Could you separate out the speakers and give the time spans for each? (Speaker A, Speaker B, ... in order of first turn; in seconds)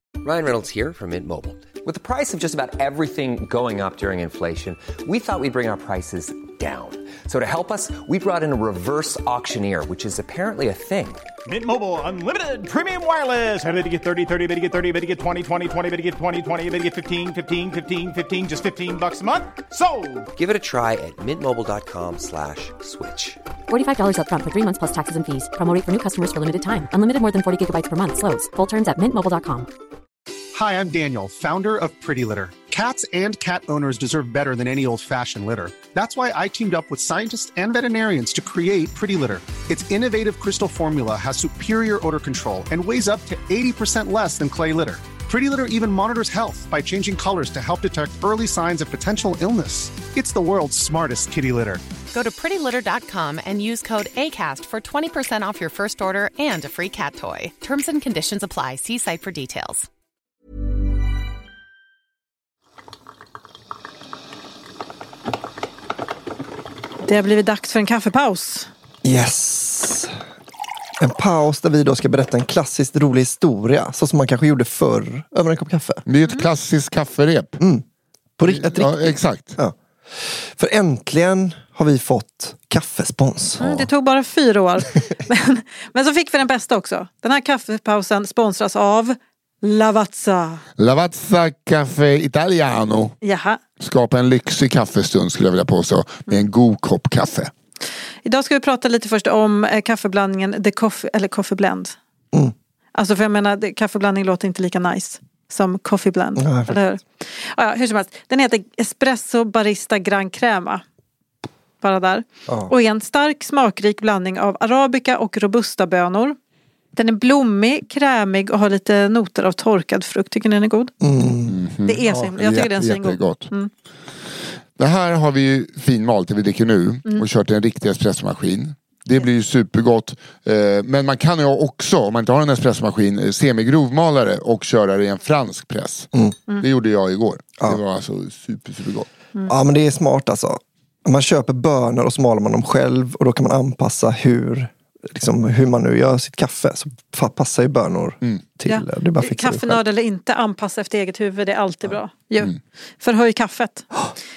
Speaker A: 0.2-11.3, 20.4-23.4
Speaker B: 11.5-20.3
Speaker C: 23.7-29.7
Speaker D: 30.5-51.8
Speaker E: 52.1-59.9
Speaker F: 67.0-68.7, 83.6-90.6, 93.2-93.6, 98.2-102.0, 103.0-110.8, 111.8-116.4, 117.0-120.9, 121.8-123.7, 148.7-153.9
Speaker G: 69.0-70.2, 71.0-76.0, 77.6-77.9, 78.4-83.9, 106.4-106.8, 112.5-112.7, 121.0-122.3, 139.5-149.8
Speaker H: 76.1-77.6, 78.5-79.6, 90.8-93.2, 93.8-97.5, 121.5-123.5, 124.8-139.1